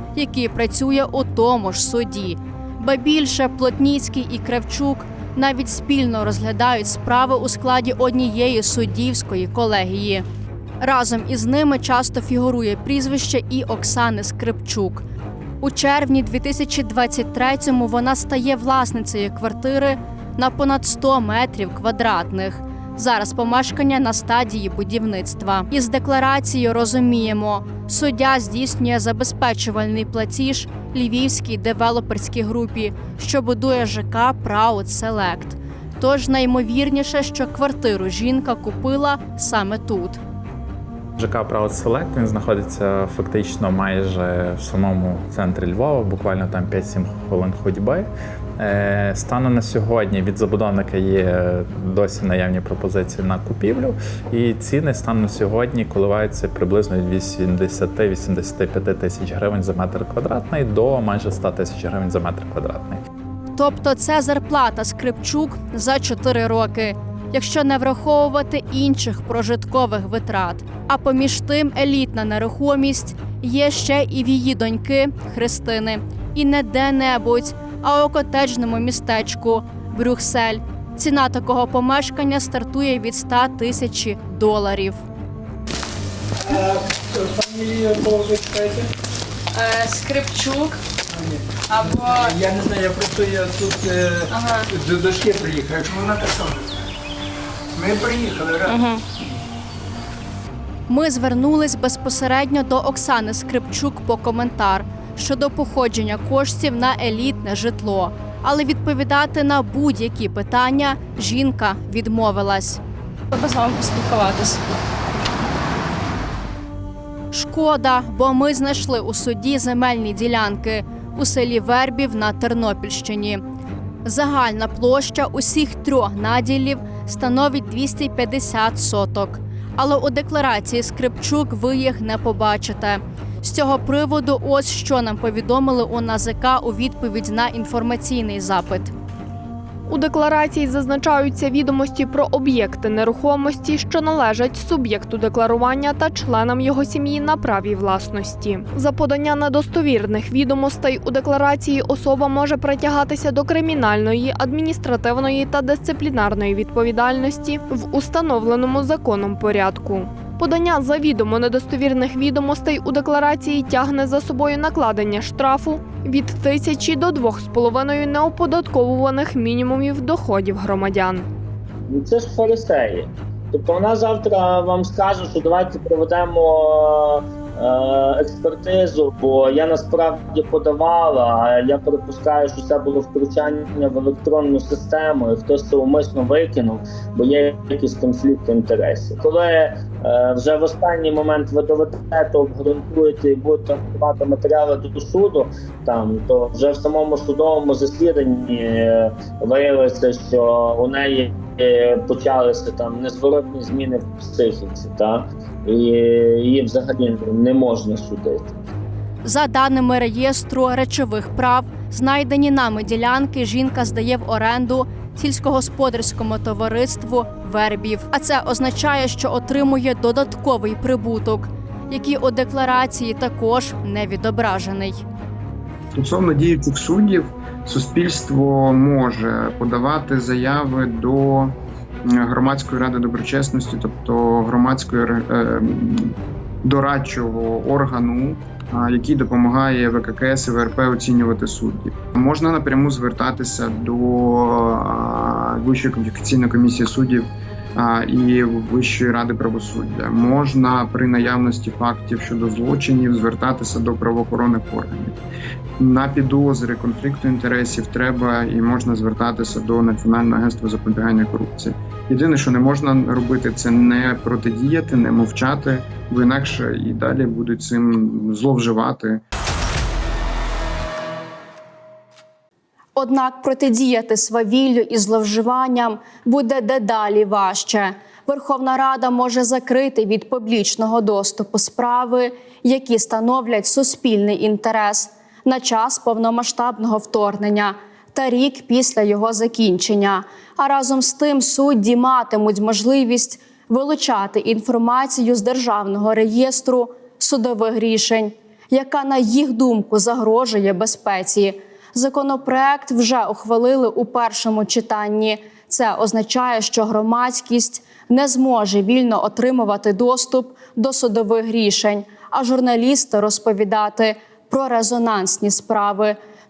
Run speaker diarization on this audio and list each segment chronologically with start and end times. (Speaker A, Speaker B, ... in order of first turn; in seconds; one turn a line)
Speaker A: 0.1-10.2
Speaker A: 10.8-15.1
Speaker A: 15.6-40.2
Speaker B: 41.2-63.0
Speaker A: 63.5-85.0
Speaker C: 86.5-88.9
Speaker A: 89.6-90.7
Speaker C: 91.1-96.7
Speaker A: 91.7-92.4
Speaker A: 94.3-94.7
Speaker C: 97.8-98.8
Speaker A: 98.7-99.0
Speaker A: 100.9-112.8
Speaker A: 113.3-114.6
Speaker A: 117.3-123.4
Speaker A: 124.0-138.9
Speaker D: 139.9-171.3
Speaker E: 171.9-208.7
Speaker A: 209.2-225.0
Speaker F: 225.9-255.2
Speaker F: 255.8-269.2
Speaker A: 273.0-316.2